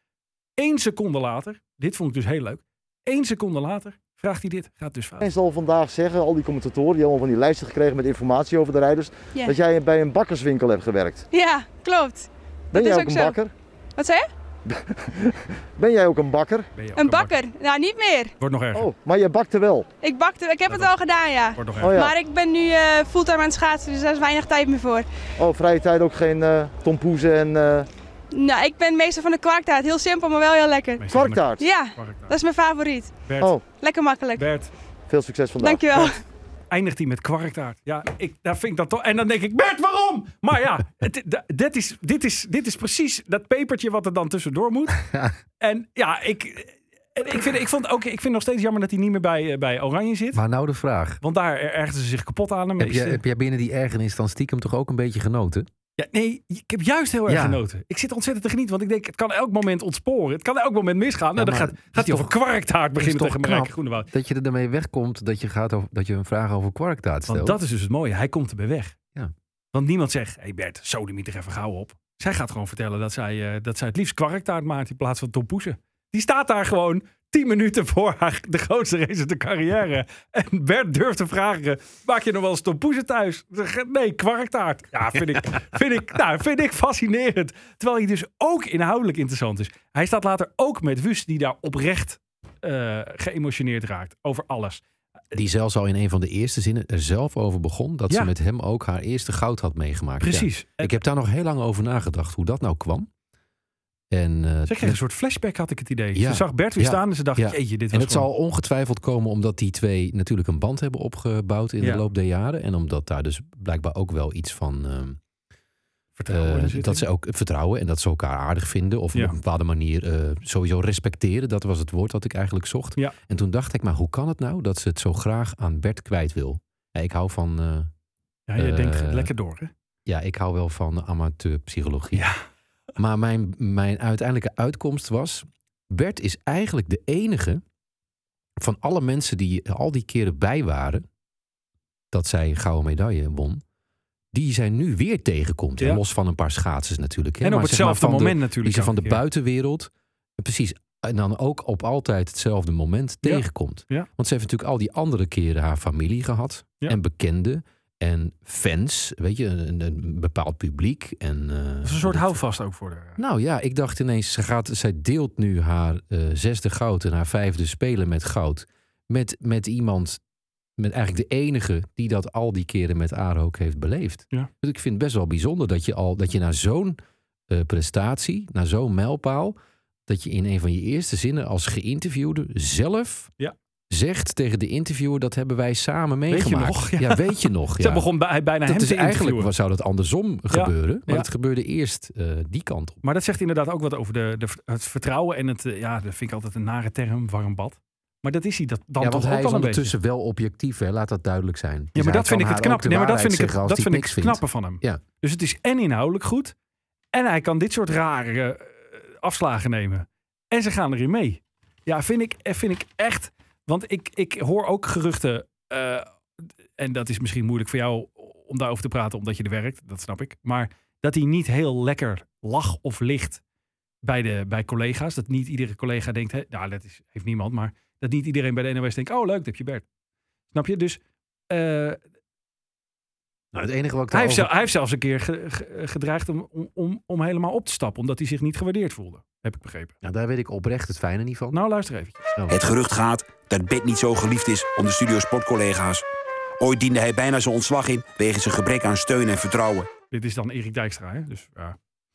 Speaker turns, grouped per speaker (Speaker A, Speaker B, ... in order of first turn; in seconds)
Speaker A: 0.6-5.3, 16.8-17.3, 18.4-18.9, 20.7-21.0, 21.6-21.9, 31.0-31.4, 31.9-32.3, 33.3-33.5, 34.4-34.7, 36.7-45.0, 45.6-50.4, 51.2-53.2, 56.0-64.1, 67.3-69.0, 69.7-94.8, 100.2-101.0, 104.7-108.3, 116.2-117.0, 128.5-129.7, 132.1-132.4, 147.4-149.2, 153.2-154.1, 161.8-163.2, 186.3-189.5, 190.5-191.3, 193.0-199.9, 201.9-206.5, 207.1-216.1, 216.8-223.4, 224.0-229.9, 230.5-232.0, 234.1-239.9, 241.5-242.2, 250.1-251.8
Speaker B: 5.2-11.2, 12.7-13.5, 14.7-16.7, 18.7-19.9, 21.8-22.1, 25.4-27.9, 31.1-31.7, 35.1-36.0
Speaker C: 11.3-13.4, 14.0-14.3, 16.9-18.3, 20.0-25.1, 28.3-31.1, 31.6-34.5, 35.6-36.1
Speaker D: 50.3-51.2, 52.8-55.7, 57.3-57.6, 61.4-62.3, 63.0-67.6, 95.3-103.1, 104.1-105.0, 106.1-115.2, 116.3-127.9, 128.6-129.3, 130.1-132.3, 133.0-137.6, 138.6-141.1, 142.1-143.6, 144.3-162.4, 163.2-170.2, 170.8-177.0, 177.5-179.6, 180.1-183.3, 183.9-188.1, 188.6-193.0, 199.0-205.0, 233.5-234.7, 240.0-241.6
Speaker E: 242.5-246.0, 246.6-249.9